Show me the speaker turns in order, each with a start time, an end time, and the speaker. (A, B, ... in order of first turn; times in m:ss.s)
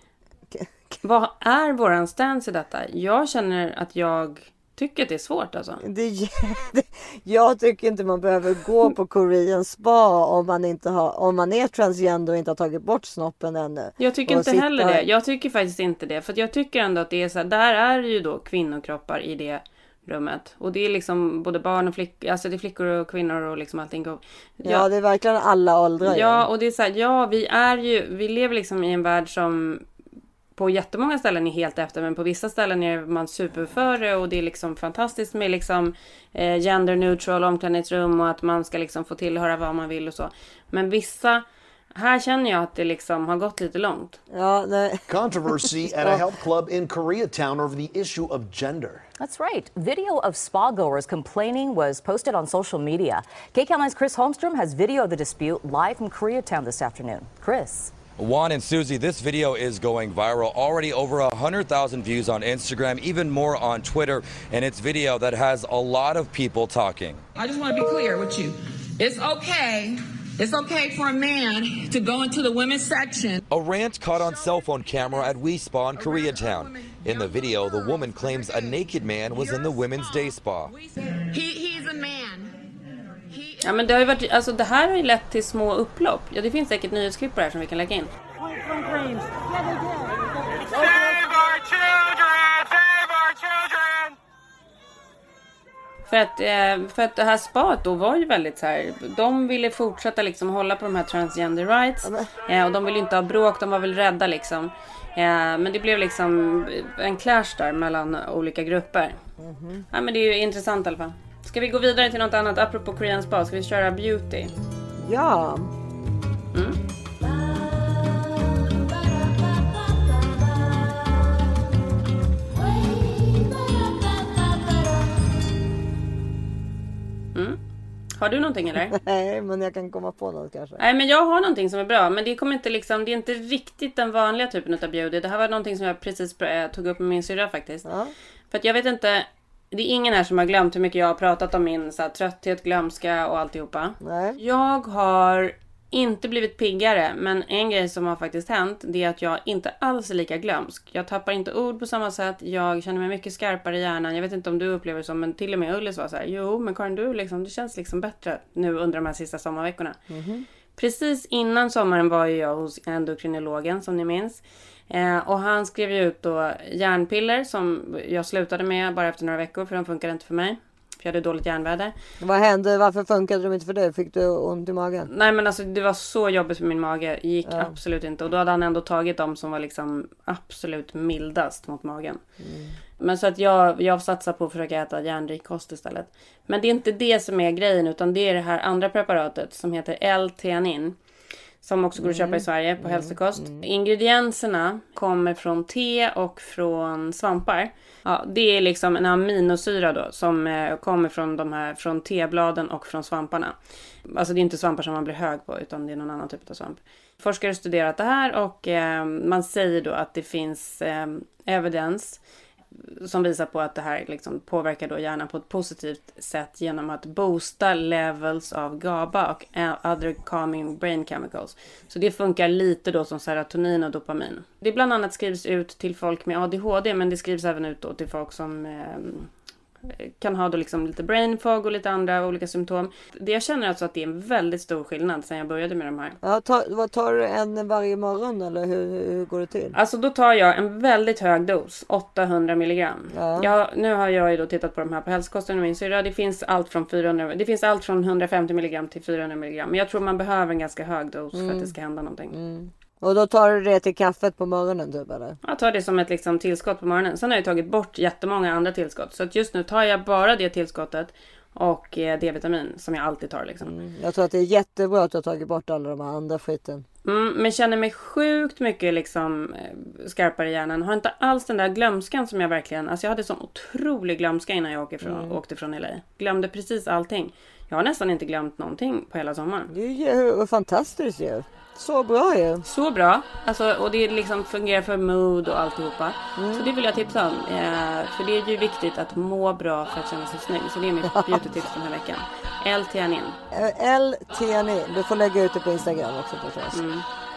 0:00.5-0:01.0 A
0:01.0-0:05.8 B
0:05.8-0:15.0 A
0:14.0-0:24.8 B
0:24.6-0:26.4 A
0:26.0-0:29.8 B
0:30.5-0:44.2 B
0:44.3-0:45.0 A
0:45.1-0:49.0 C
0:49.2-0:58.0 D
0:58.1-1:07.2 E
1:07.3-1:13.4 F
1:13.5-1:20.7 E
1:21.2-1:22.5 F
1:23.3-1:23.6 F
1:23.6-1:28.1 B
1:28.5-1:29.8 A
1:30.7-1:31.3 A
1:36.1-1:49.2 B
1:42.0-1:42.3 A
1:49.4-1:49.8 A
1:49.9-1:54.5 B
1:55.0-1:55.7 A
1:56.5-1:56.8 B
2:07.3-2:07.6 B
2:08.2-2:08.9 B
2:08.9-2:10.8 A
2:10.8-2:17.9 B
2:17.8-2:18.1 A
2:18.5-2:40.0 B
2:24.0-2:24.4 A
2:40.1-2:40.4 A
2:40.8-2:51.9 B
2:52.2-2:55.1 A
2:55.1-3:02.2 B
2:57.4-2:57.7 A
3:02.4-3:02.7 A
3:03.0-3:11.0 B
3:11.6-3:23.6 B
3:12.0-3:13.6 A
3:24.1-3:32.2 B
3:32.9-3:49.3 B
3:49.8-3:56.2 B
3:56.2-3:59.7 A
3:59.7-4:12.3 B
4:03.1-4:03.5 A
4:11.3-4:11.7 A
4:12.3-4:15.4 A
4:15.4-4:23.7 B
4:23.6-4:26.8 A
4:27.0-4:39.7 B
4:35.0-4:35.4 A
4:39.7-4:42.6 A
4:42.6-4:53.4 B
4:46.4-4:46.7 A
4:51.0-4:51.4 A
4:53.5-4:56.8 A
4:56.7-4:57.0 B